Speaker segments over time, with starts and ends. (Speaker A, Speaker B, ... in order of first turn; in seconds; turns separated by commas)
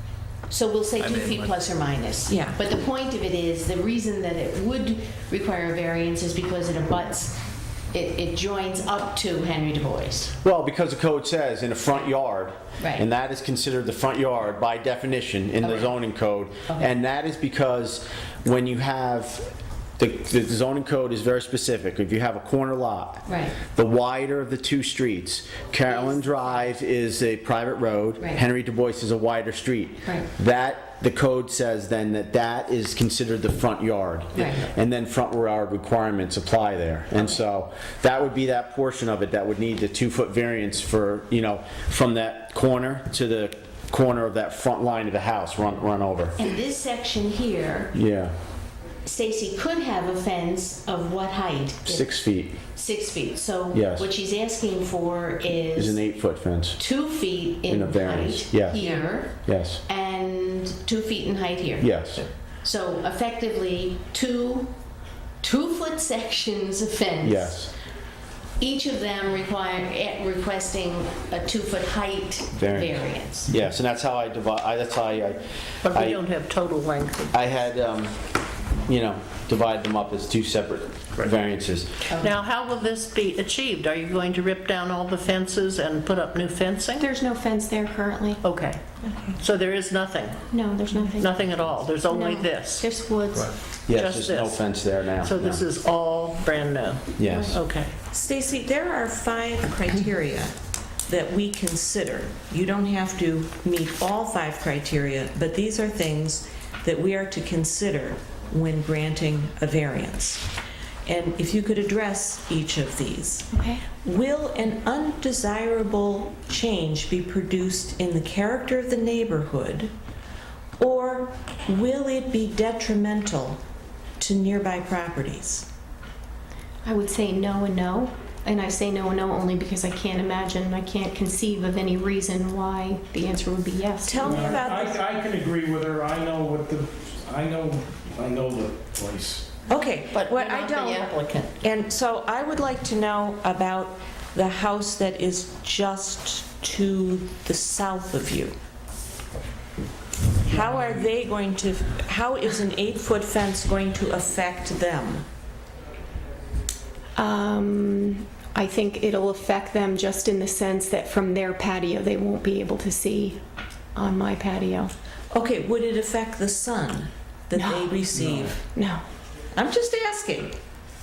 Speaker A: 0.5-10.3, Speaker B: 1.0-1.6, Speaker C: 2.3-2.6, Speaker D: 10.4-46.4, Speaker A: 12.8-13.1, Speaker A: 15.6-15.9, Speaker A: 23.3-23.6, Speaker A: 25.9-26.2, Speaker A: 34.4-34.7, Speaker A: 46.4-48.0, Speaker D: 47.9-48.3, Speaker A: 49.0-52.1, Speaker D: 51.9-52.6, Speaker A: 52.7-56.0, Speaker D: 53.7-54.1, Speaker D: 55.8-56.8, Speaker A: 56.8-61.9, Speaker D: 57.7-58.8, Speaker C: 58.8-59.1, Speaker D: 59.5-59.8, Speaker D: 61.8-62.2, Speaker A: 62.6-64.7, Speaker A: 65.4-67.6, Speaker D: 67.2-67.7, Speaker A: 68.6-73.5, Speaker D: 72.5-76.2, Speaker E: 75.8-77.4, Speaker D: 77.3-78.1, Speaker D: 78.9-82.1, Speaker A: 82.1-82.3, Speaker E: 82.1-87.1, Speaker B: 87.0-88.4, Speaker E: 88.4-88.8, Speaker E: 89.4-92.9, Speaker B: 90.5-91.3, Speaker B: 92.0-93.5, Speaker D: 93.9-95.7, Speaker E: 93.9-97.9, Speaker D: 97.2-97.6, Speaker C: 98.1-100.6, Speaker C: 101.1-110.5, Speaker C: 111.1-119.9, Speaker B: 113.5-113.9, Speaker C: 120.8-123.6, Speaker C: 124.2-125.7, Speaker B: 126.8-134.6, Speaker C: 134.1-135.1, Speaker F: 134.2-139.5, Speaker C: 139.7-148.6, Speaker E: 140.1-141.5, Speaker C: 150.4-155.2, Speaker B: 157.2-163.4, Speaker B: 163.9-164.9, Speaker C: 165.3-168.7, Speaker B: 167.6-167.9, Speaker F: 168.2-168.5, Speaker B: 168.8-169.0, Speaker C: 169.6-170.6